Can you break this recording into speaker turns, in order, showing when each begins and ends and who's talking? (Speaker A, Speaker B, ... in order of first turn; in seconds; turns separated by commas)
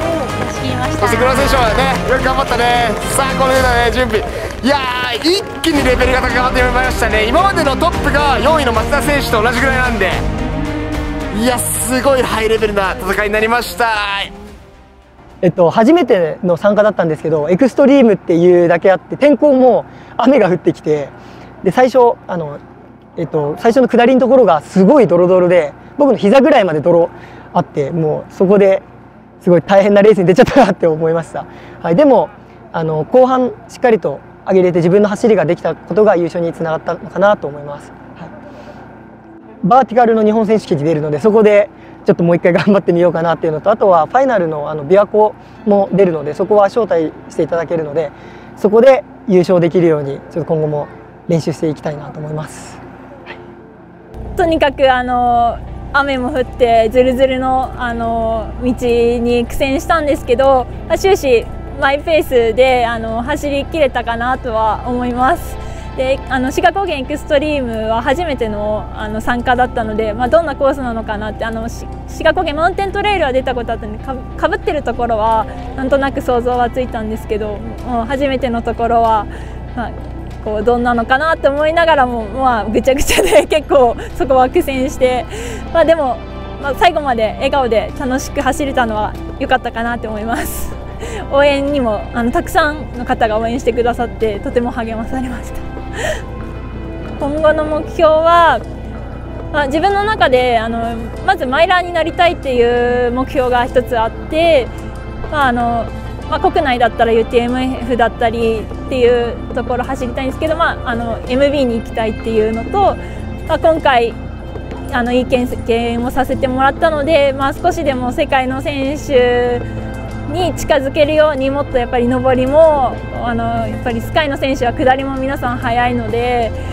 Speaker A: 0.3-2.0, Speaker B: 1.0-10.2, Speaker A: 10.3-11.5, Speaker B: 11.3-14.3, Speaker A: 13.1-13.5, Speaker A: 14.3-14.6, Speaker C: 15.4-22.6, Speaker C: 23.2-28.8, Speaker C: 29.4-38.3, Speaker C: 39.6-52.8, Speaker D: 54.4-96.2, Speaker D: 97.2-98.6, Speaker D: 99.5-104.7, Speaker D: 105.3-114.2, Speaker D: 114.9-119.7, Speaker D: 120.3-126.6